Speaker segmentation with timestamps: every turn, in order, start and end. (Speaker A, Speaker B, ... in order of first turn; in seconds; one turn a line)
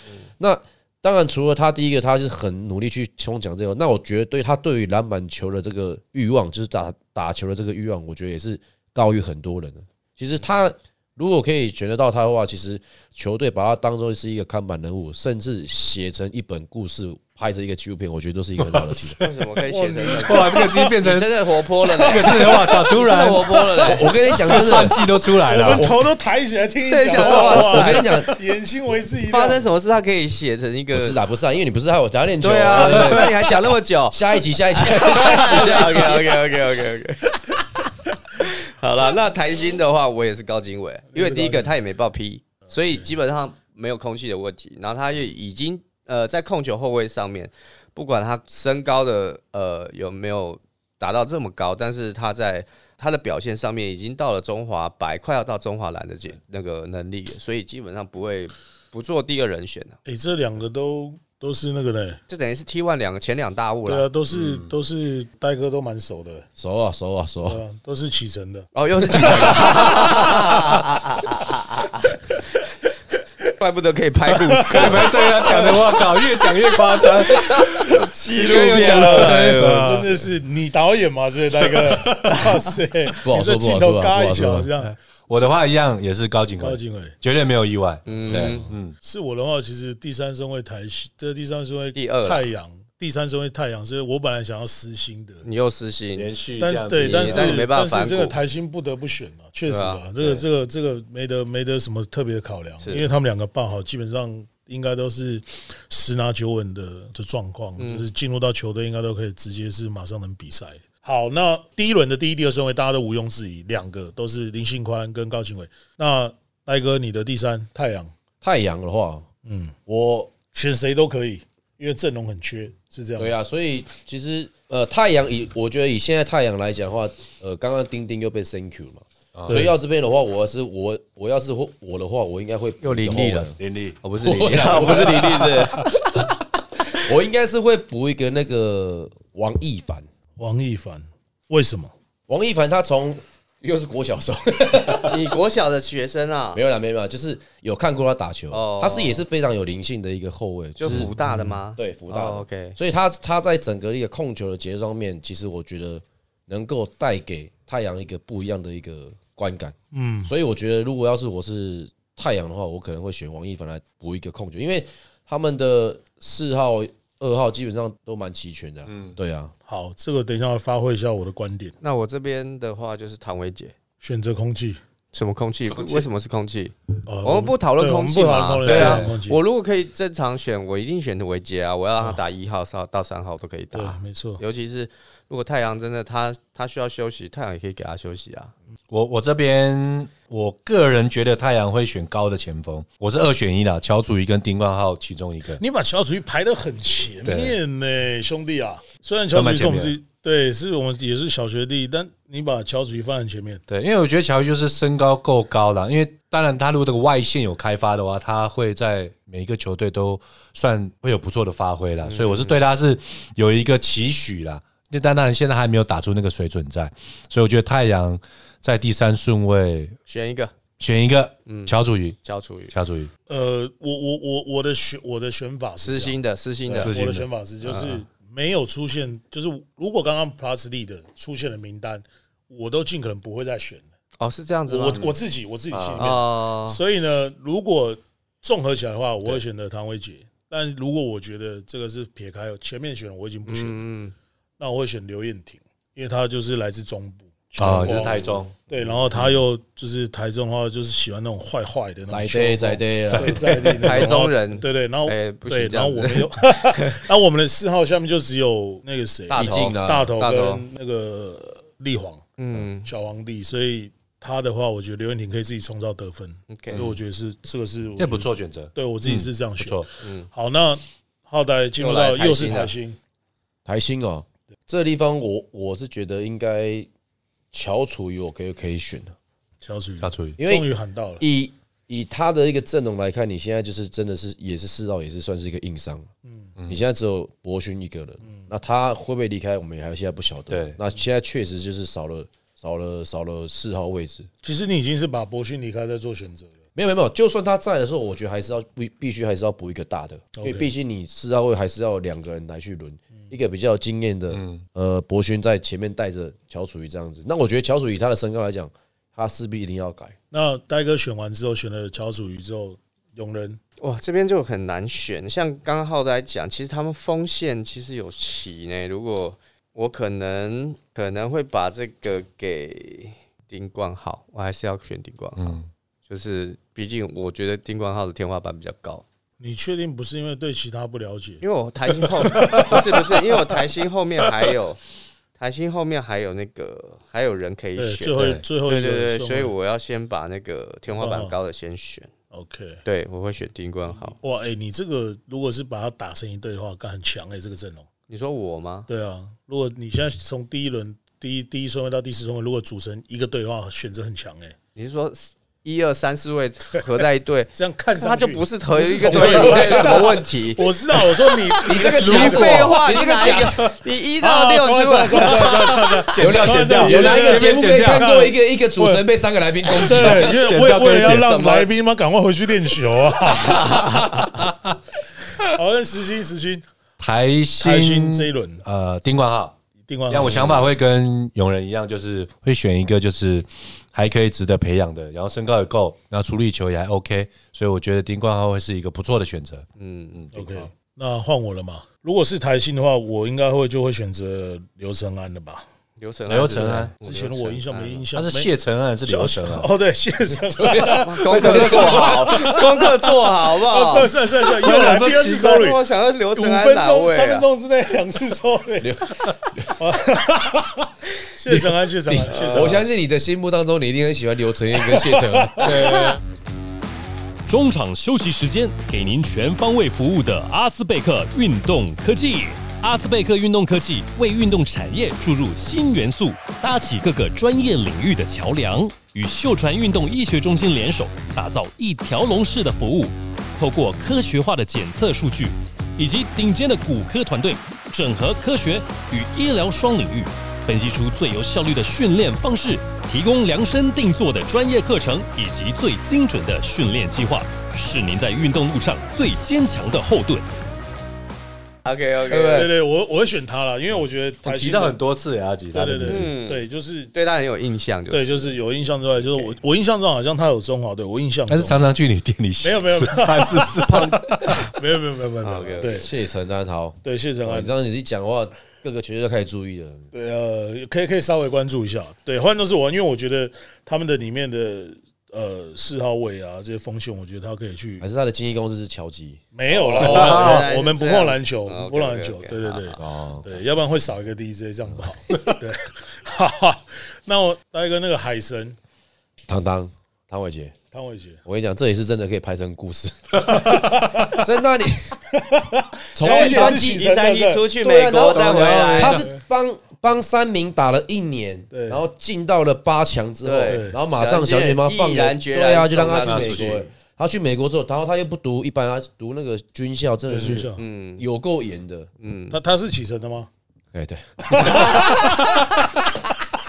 Speaker A: 0.4-19.2
Speaker B: 18.6-19.2
Speaker C: 19.2-24.1
Speaker D: 19.6-20.9
Speaker B: 20.1-23.6
Speaker D: 22.2-22.6
Speaker A: 23.8-26.0
Speaker B: 24.3-25.9
Speaker D: 25.4-29.7
Speaker C: 26.9-28.1
Speaker A: 27.2-28.3
Speaker C: 29.3-31.2
Speaker A: 30.9-36.4
Speaker C: 32.4-37.6
Speaker C: 38.4-60.0
Speaker D: 41.1-41.7
Speaker D: 60.0-62.2
Speaker C: 62.3-64.1
Speaker D: 63.9-66.5
Speaker B: 64.3-64.7
Speaker A: 66.6-67.6
Speaker D: 67.5-69.8
Speaker C: 68.7-72.2
Speaker C: 73.6-75.8
Speaker D: 74.4-75.9
Speaker B: 74.7-80.1
Speaker C: 77.3-80.2
Speaker D: 78.3-85.5
Speaker B: 81.7-82.5
Speaker A: 83.2-84.7
Speaker B: 84.8-89.0
Speaker D: 86.6-87.2
Speaker C: 88.0-88.7
Speaker D: 88.2-95.5
Speaker C: 91.9-92.5
Speaker C: 95.4-96.3
Speaker B: 96.2-97.7
Speaker D: 96.6-118.1
Speaker C: 96.9-98.4
Speaker C: 99.7-100.5
Speaker C: 102.8-103.1
Speaker C: 107.8-108.1
Speaker A: 118.4-119.3
Speaker D: 119.5-119.8
Speaker A: 119.9-120.3
Speaker D: 120.5-123.3
Speaker A: 123.2-133.6
Speaker B: 129.3-129.6
Speaker D: 129.5-129.7
Speaker C: 132.8-136.0
Speaker B: 133.6-134.0
Speaker A: 134.2-136.2
Speaker A: 136.9-140.1
Speaker D: 140.4-141.9
Speaker A: 142.3-145.2
Speaker C: 145.0-146.6
Speaker A: 146.5-151.2
Speaker C: 148.5-149.2
Speaker C: 150.8-152.8
Speaker D: 151.2-151.6
Speaker A: 151.8-169.5
Speaker D: 159.9-160.3
Speaker B: 168.9-169.2
Speaker D: 169.7-171.8
Speaker C: 171.8-173.8
Speaker D: 174.0-174.8
Speaker C: 175.1-188.5
Speaker B: 175.7-176.1
Speaker D: 177.1-179.4
Speaker B: 178.6-179.1
Speaker D: 183.7-184.4
Speaker B: 188.9-195.6
Speaker D: 195.6-203.6
Speaker B: 197.2-197.6
Speaker B: 199.3-199.9
Speaker B: 203.7-220.0
Speaker C: 212.0-212.6
Speaker C: 220.1-220.5
Speaker B: 220.8-222.2
Speaker C: 221.5-222.7
Speaker B: 222.7-223.1
Speaker D: 223.3-233.9
Speaker C: 225.8-226.9
Speaker B: 226.8-227.3
Speaker C: 227.6-228.0
Speaker C: 234.2-235.2
Speaker D: 234.7-243.9
Speaker B: 235.7-236.1
Speaker C: 236.0-236.8
Speaker C: 243.5-244.1
Speaker D: 244.6-262.3
Speaker B: 247.6-248.5
Speaker A: 252.1-253.7
Speaker B: 253.1-254.1
Speaker C: 253.8-257.0
Speaker A: 259.3-260.2
Speaker C: 259.3-260.6
Speaker C: 262.4-262.9
Speaker D: 262.8-273.0
Speaker C: 266.5-266.9
Speaker B: 266.7-267.0
Speaker B: 268.0-269.9
Speaker C: 270.0-270.3
Speaker C: 271.8-272.7
Speaker A: 273.7-276.9
Speaker A: 277.5-279.1
Speaker D: 279.6-281.2
Speaker B: 280.0-280.4
Speaker A: 280.4-280.7
Speaker A: 281.2-286.1
Speaker A: 286.7-294.3
Speaker B: 290.5-290.8
Speaker D: 294.4-296.5
Speaker A: 296.8-310.1
Speaker D: 300.4-300.7
Speaker B: 304.3-304.6
Speaker D: 310.3-313.6
Speaker C: 313.8-329.0
Speaker B: 325.4-325.7
Speaker D: 329.4-333.6
Speaker C: 331.4-334.8
Speaker D: 334.2-334.5
Speaker C: 335.4-342.1
Speaker D: 337.8-339.5
Speaker D: 341.0-341.4
Speaker D: 342.3-342.8
Speaker C: 342.9-344.2
Speaker D: 344.1-347.9
Speaker C: 348.1-348.9
Speaker D: 348.9-354.6
Speaker C: 354.8-360.7
Speaker D: 357.5-363.6
Speaker A: 359.1-360.2
Speaker A: 361.6-363.7
Speaker C: 361.8-365.9
Speaker B: 362.1-362.4
Speaker D: 364.2-369.0
Speaker B: 366.1-368.2
Speaker A: 366.1-370.4
Speaker B: 369.7-371.3
Speaker D: 369.7-373.9
Speaker C: 371.0-371.7
Speaker C: 373.3-374.4
Speaker B: 373.8-374.5
Speaker D: 375.4-376.7
Speaker B: 377.0-379.6
Speaker D: 377.6-378.6
Speaker D: 379.8-380.7
Speaker B: 380.1-390.7
Speaker C: 389.8-390.2
Speaker D: 390.3-395.7
Speaker C: 396.0-398.1
Speaker B: 396.3-396.9
Speaker D: 397.0-398.5
Speaker B: 398.1-399.7
Speaker D: 399.1-402.9
Speaker A: 400.5-402.6
Speaker C: 400.9-407.5
Speaker B: 401.3-402.6
Speaker D: 403.5-412.9
Speaker B: 404.6-405.4
Speaker A: 408.8-409.8
Speaker A: 411.5-416.0
Speaker C: 412.4-412.7
Speaker D: 414.9-416.1
Speaker B: 415.6-416.0
Speaker E: 417.5-450.5
Speaker C: 451.9-452.7
Speaker A: 452.3-452.7
Speaker D: 452.5-455.0
Speaker B: 454.4-456.3
Speaker D: 455.7-457.1
Speaker C: 456.1-458.6
Speaker D: 458.1-461.9
Speaker B: 461.5-464.7
Speaker D: 462.6-466.1
Speaker C: 463.9-464.5
Speaker C: 465.4-466.1
Speaker A: 466.0-470.1
Speaker D: 467.0-467.7
Speaker D: 470.1-478.1
Speaker A: 478.0-480.4
Speaker D: 479.5-488.8
Speaker C: 479.7-483.0
Speaker B: 480.0-480.7
Speaker A: 483.0-483.6
Speaker A: 489.5-490.8
Speaker D: 490.9-491.4
Speaker A: 491.5-495.2
Speaker D: 493.4-494.4
Speaker D: 495.4-497.7
Speaker A: 496.1-497.1
Speaker C: 496.2-499.3
Speaker A: 497.8-512.1
Speaker B: 498.3-499.3
Speaker D: 499.1-499.4
Speaker D: 501.7-502.0
Speaker C: 503.4-506.9
Speaker D: 503.7-504.0
Speaker B: 506.2-506.8
Speaker D: 510.3-510.8
Speaker C: 510.4-511.2
Speaker C: 512.2-512.6
Speaker D: 512.5-513.5
Speaker A: 513.9-515.3
Speaker D: 514.5-515.8